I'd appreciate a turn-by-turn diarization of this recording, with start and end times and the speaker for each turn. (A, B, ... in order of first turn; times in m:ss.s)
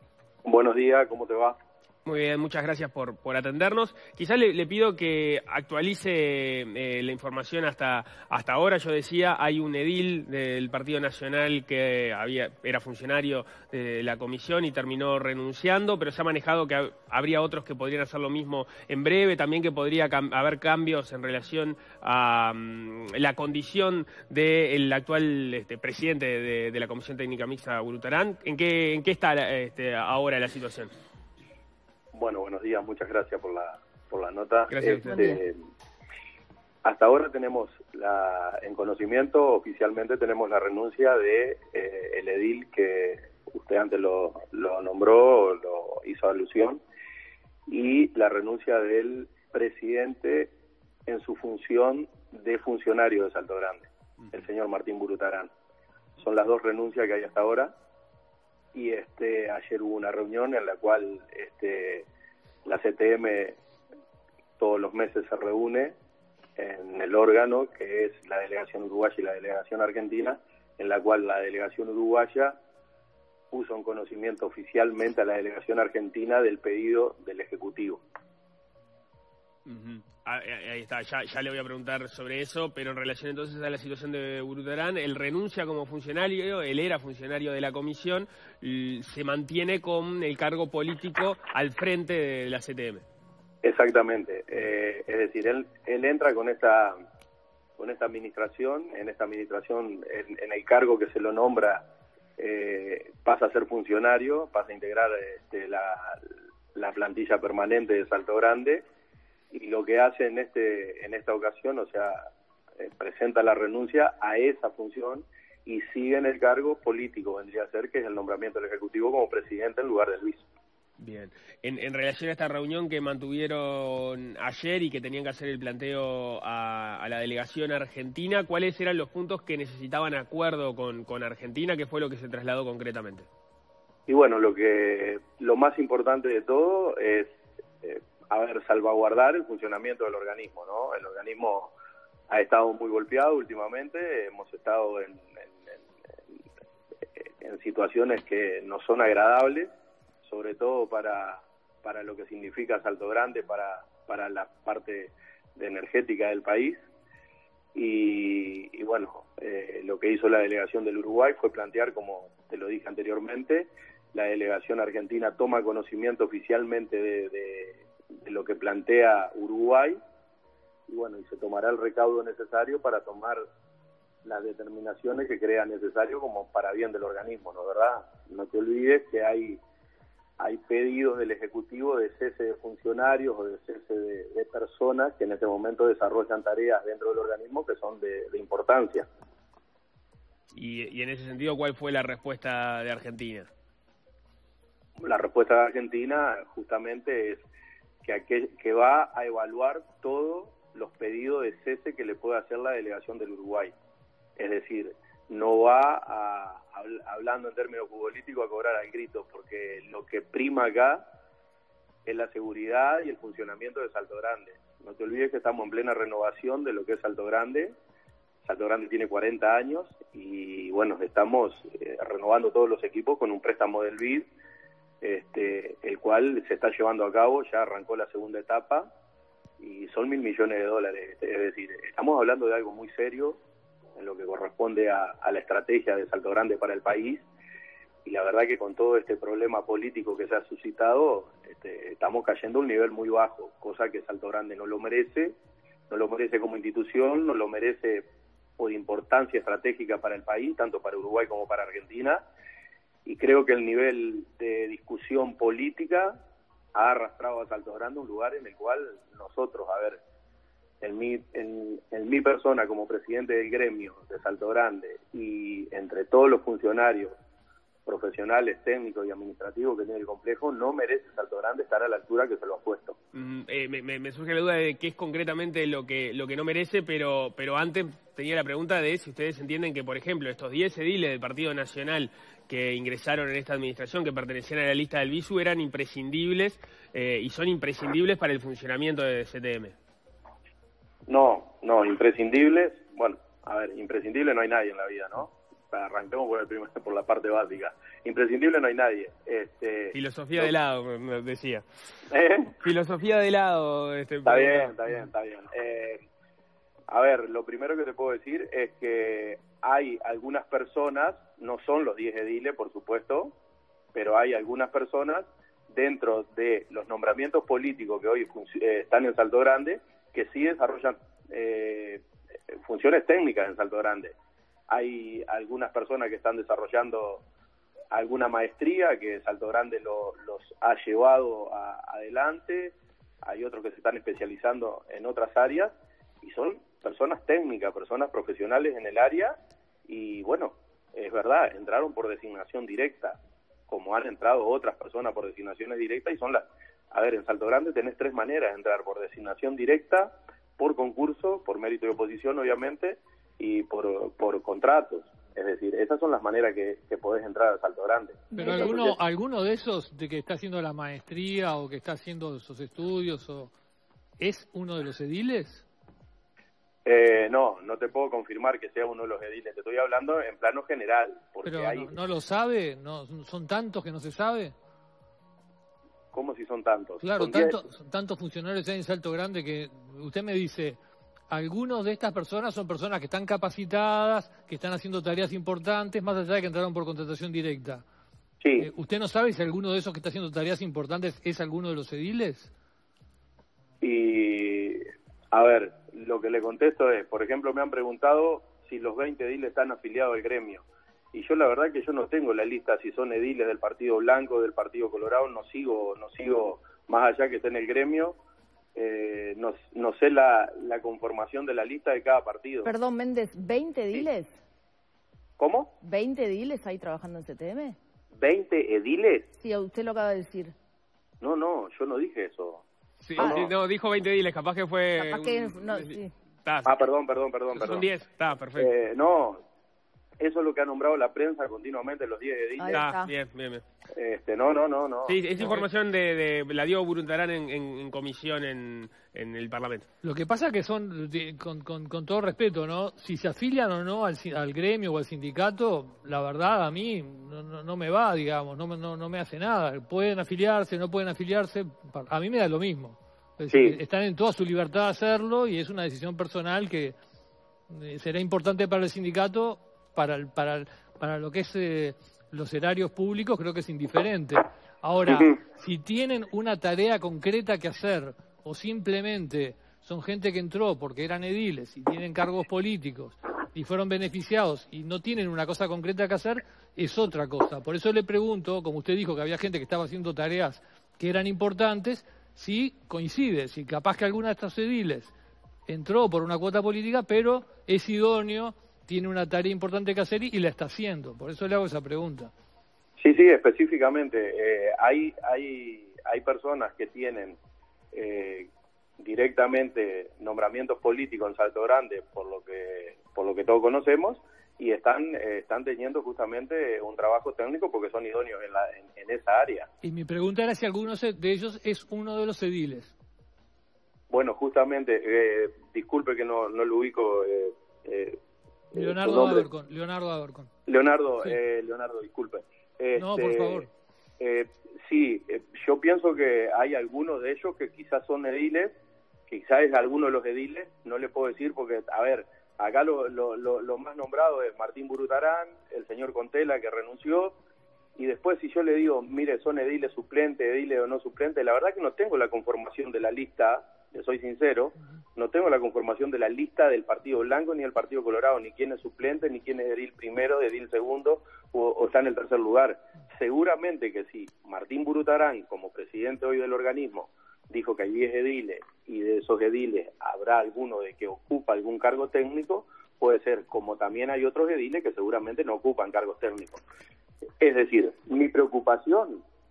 0:00.4-0:01.6 A
0:02.0-0:30.9 B
0:32.1-0:35.6 A
0:34.7-0:35.2 B
0:35.0-0:35.4 C
0:36.8-0:46.8 A
0:47.7-0:50.5 A
0:51.1-0:55.5 A
0:56.2-0:57.7 A
0:58.7-1:02.1 A
1:02.6-1:03.5 A
1:04.6-1:05.9 A
1:06.6-1:12.6 A
1:13.5-1:18.0 A
1:19.6-1:33.0 B
1:33.6-1:37.0 A
1:37.8-1:41.8 A
1:42.4-1:46.2 A
1:46.7-1:48.8 A
1:49.5-1:52.2 A
1:52.8-2:00.4 A
2:01.0-2:13.3 B
2:14.1-2:21.7 A
2:22.3-2:25.7 A
2:27.4-2:29.7 A
2:30.2-2:36.8 A
2:37.7-2:50.0 A
2:50.9-2:53.4 A
2:54.2-2:59.6 A
3:00.4-3:09.0 A
3:10.5-3:13.5 B
3:15.0-3:17.4 A
3:18.0-3:23.7 A
3:24.4-3:31.0 A
3:32.0-3:37.7 A
3:38.4-3:44.3 A
3:45.0-3:48.9 A
3:49.6-3:53.4 A
3:54.0-3:57.2 A
3:58.0-4:05.3 A
4:05.9-4:08.0 A
4:08.6-4:12.2 A
4:13.0-4:16.2 A
4:16.7-4:20.0 A
4:20.8-4:27.1 A
4:27.9-4:33.0 A
4:33.1-4:49.8 B
4:51.1-5:00.5 A
4:59.9-5:01.6 B
5:02.1-5:02.5 A
5:02.6-5:04.7 B
5:04.2-5:06.0 A
5:06.9-5:13.3 A
5:13.9-5:24.1 A
5:24.7-5:27.2 A
5:27.9-5:59.0 A
5:58.3-5:58.9 C
5:58.3-6:03.5 D
6:04.2-6:05.7 D
6:06.8-6:12.0 A
6:11.5-6:14.6 D
6:16.1-6:17.6 A
6:17.0-6:27.8 D
6:28.4-6:28.7 A
6:28.6-6:32.5 D
6:33.8-6:48.2 A
6:48.7-6:52.7 A
6:52.6-6:54.4 C
6:55.4-6:55.7 A
6:55.8-6:57.8 C
6:58.1-6:59.3 A
6:59.3-7:00.5 C
7:01.2-7:02.6 A
7:03.0-7:06.7 B
7:03.2-7:03.5 A
7:03.2-7:03.5 C
7:05.0-7:06.1 C
7:06.6-7:07.9 A
7:07.5-7:08.7 B
7:08.6-7:09.4 A
7:10.2-7:12.8 A
7:12.6-7:13.1 C
7:12.7-7:13.6 B
7:13.9-7:15.2 A
7:15.1-7:19.8 B
7:20.0-7:37.0 D
7:33.5-7:33.8 A
7:37.7-8:05.1 D
8:05.7-8:12.3 D
8:13.0-8:17.4 A
8:17.9-8:29.7 A
8:29.8-8:32.9 D
8:34.1-8:38.2 A
8:38.7-8:39.5 A
8:38.8-8:40.5 D
8:40.6-8:43.6 A
8:43.0-8:43.7 D
8:44.2-8:48.7 A
8:49.3-8:57.3 A
8:58.0-9:26.6 A
9:27.4-9:29.2 A